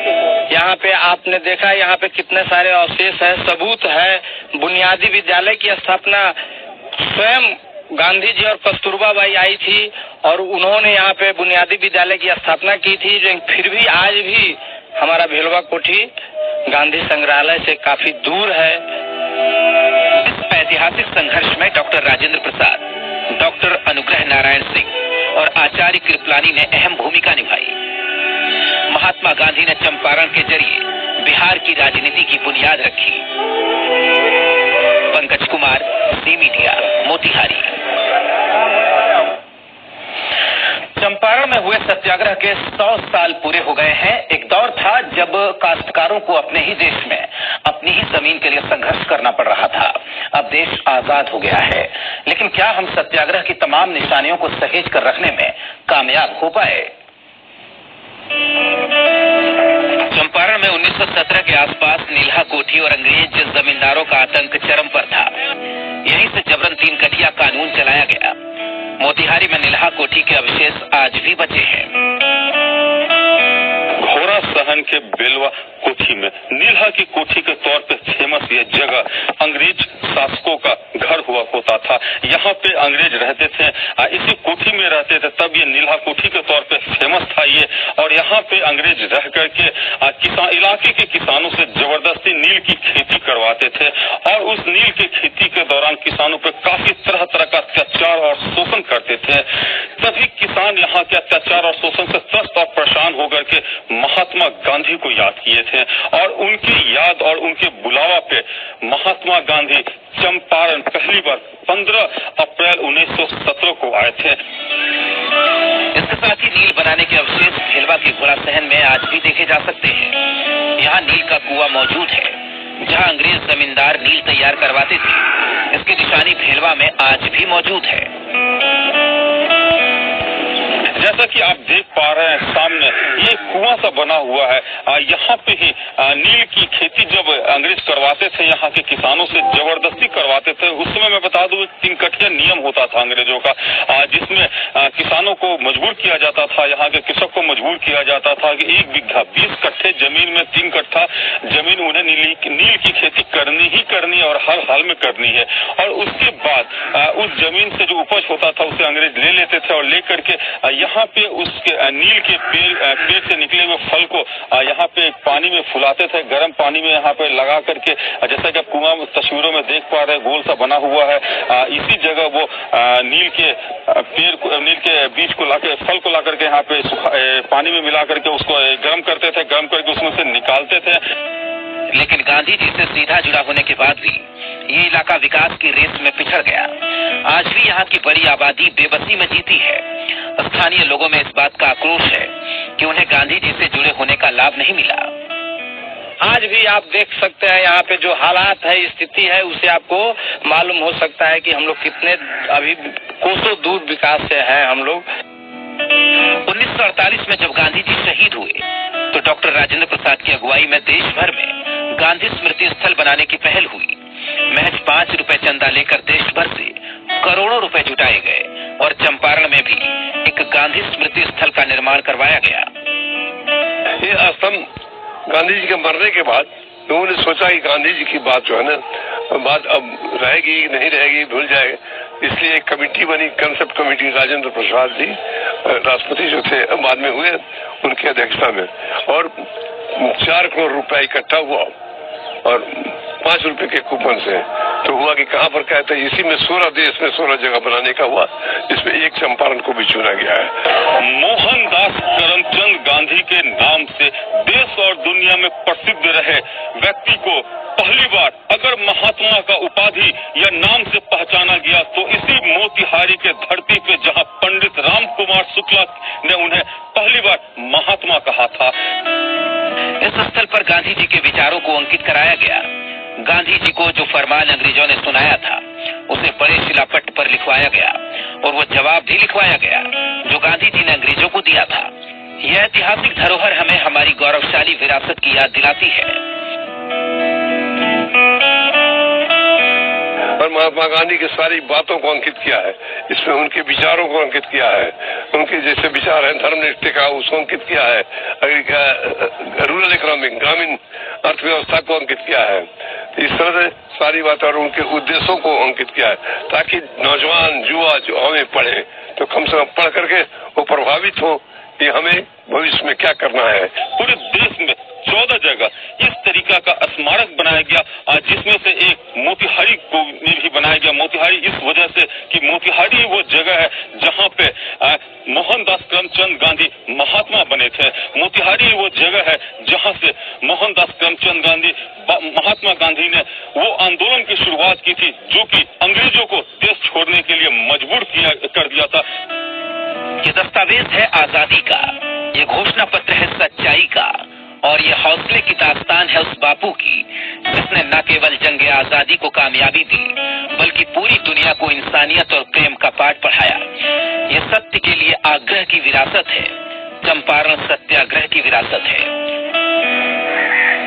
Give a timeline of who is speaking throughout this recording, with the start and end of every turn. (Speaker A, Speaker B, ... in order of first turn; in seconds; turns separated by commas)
Speaker A: 0.5-6.4, Speaker A: 7.0-16.1, Speaker A: 16.7-18.8, Speaker B: 20.2-27.8, Speaker B: 28.9-33.3, Speaker B: 35.1-37.8, Speaker B: 41.0-56.9, Speaker B: 60.0-65.3, Speaker B: 66.0-68.4, Speaker B: 69.0-72.0, Speaker C: 74.0-99.5, Speaker C: 100.0-114.4, Speaker B: 115.9-120.2, Speaker B: 120.8-128.1, Speaker C: 130.9-181.0, Speaker B: 181.9-189.8, Speaker B: 190.4-195.1, Speaker A: 196.2-205.1, Speaker B: 206.4-214.0, Speaker B: 214.5-222.7, Speaker D: 224.0-224.7, Speaker D: 225.3-239.3, Speaker D: 239.9-241.7, Speaker D: 242.4-250.5, Speaker C: 250.9-268.8, Speaker B: 270.0-272.7, Speaker B: 273.2-281.9, Speaker B: 282.4-286.2, Speaker D: 290.4-313.7, Speaker C: 314.0-339.0, Speaker B: 340.2-353.6, Speaker B: 354.3-359.1